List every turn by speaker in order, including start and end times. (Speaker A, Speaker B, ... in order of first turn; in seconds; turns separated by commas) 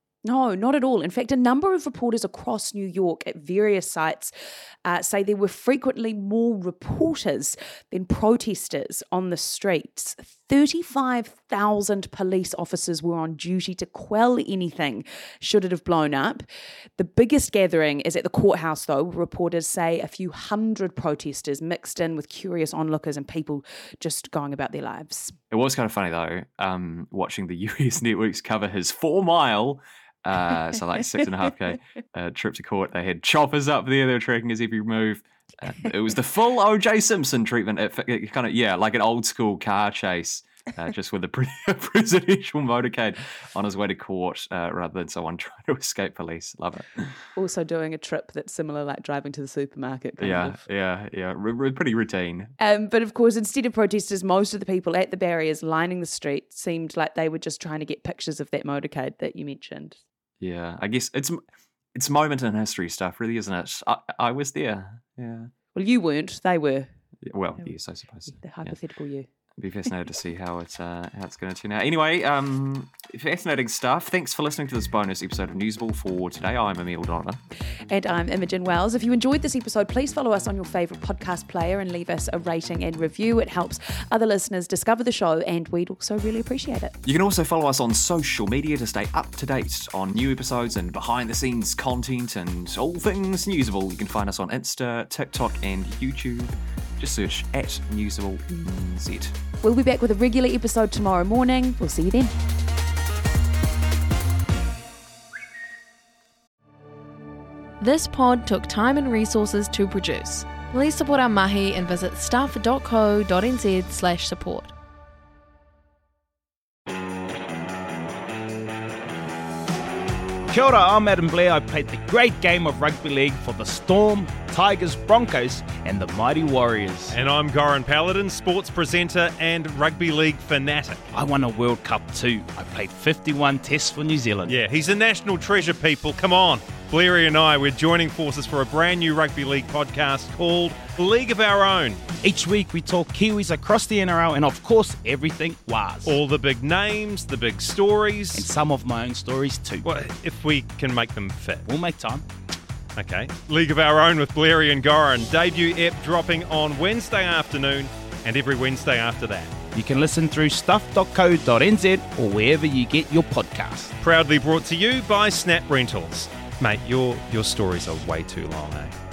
Speaker A: 0.2-4.3, Speaker A: 4.8-16.4, Speaker A: 17.0-25.4, Speaker B: 25.5-47.1, Speaker A: 47.4-50.6, Speaker B: 50.2-52.5, Speaker A: 52.6-60.0, Speaker B: 60.4-61.4, Speaker B: 62.0-65.5, Speaker A: 65.7-66.9, Speaker B: 67.2-68.8, Speaker A: 68.3-69.3, Speaker B: 69.6-77.4, Speaker A: 77.9-86.9, Speaker B: 87.0-99.3, Speaker A: 99.6-102.3, Speaker C: 107.8-114.7, Speaker D: 120.5-127.2, Speaker E: 127.1-131.0, Speaker D: 131.1-134.6, Speaker E: 134.4-142.0, Speaker D: 142.2-146.2, Speaker E: 146.0-148.5, Speaker D: 148.3-149.8, Speaker E: 149.8-151.7, Speaker D: 151.6-152.2, Speaker E: 152.9-159.5, Speaker D: 159.7-163.9, Speaker E: 164.0-168.9